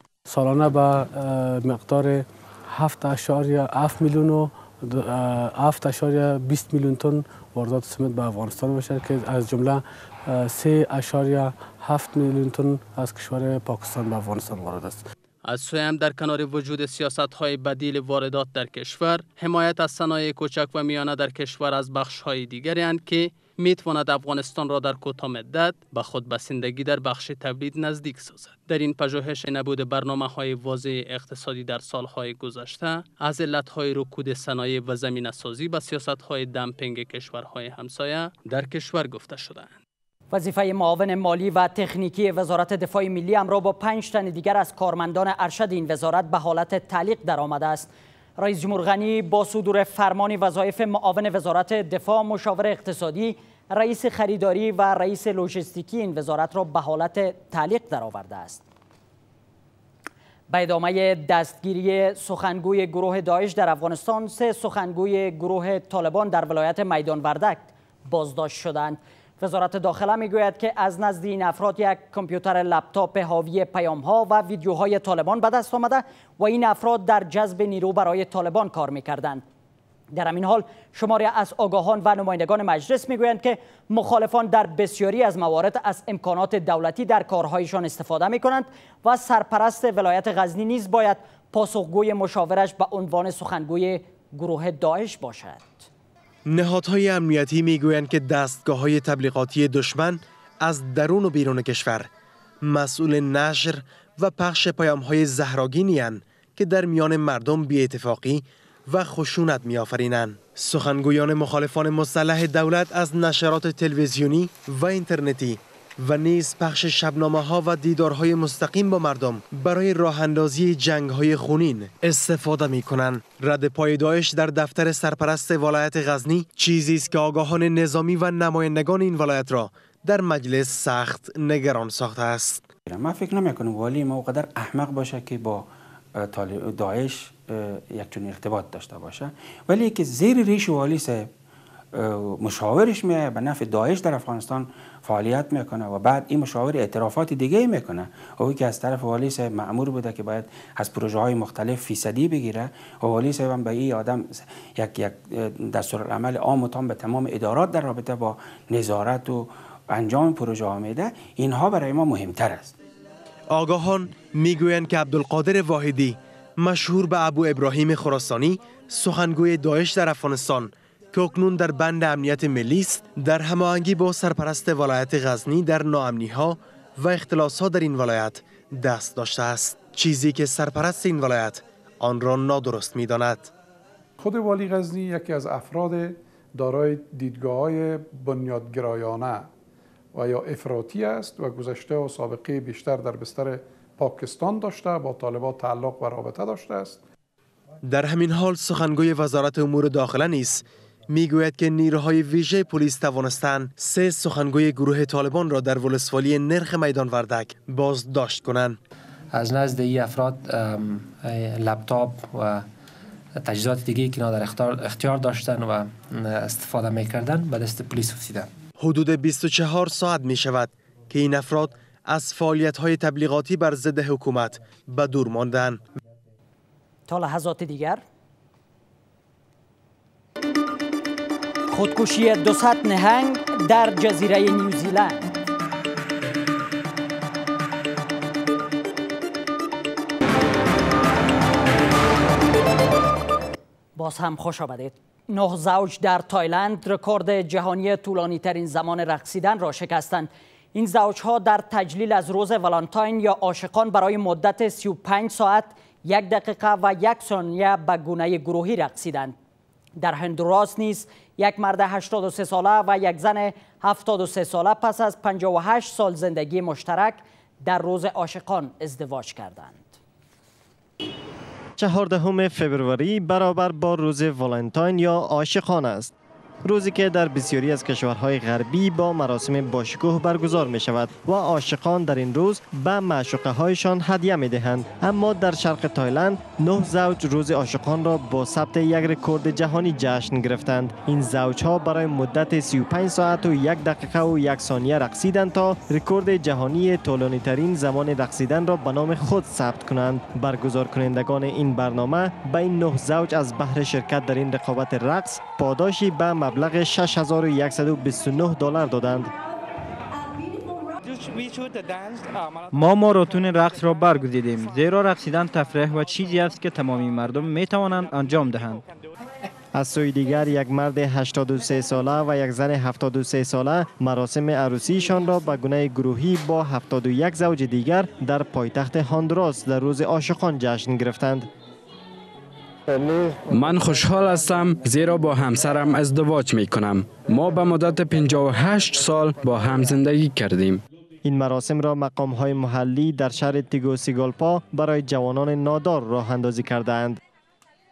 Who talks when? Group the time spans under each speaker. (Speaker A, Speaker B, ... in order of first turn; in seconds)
Speaker A: 0.3-15.0
Speaker B: 15.4-39.8
Speaker C: 40.3-58.6, 60.5-79.4, 80.1-95.9, 227.1-228.0, 231.7-235.4, 244.0-259.4, 260.0-270.0
Speaker D: 96.5-102.1, 102.6-132.7, 163.5-183.5, 197.8-208.8, 218.8-225.8
Speaker E: 132.9-141.3, 141.9-162.8
Speaker F: 184.2-189.5, 190.1-197.0
Speaker G: 209.3-212.7, 213.4-218.5
Speaker H: 271.8-276.1, 276.6-309.3, 319.7-331.5, 341.2-347.2
Speaker I: 312.7-318.8
Speaker J: 333.4-340.8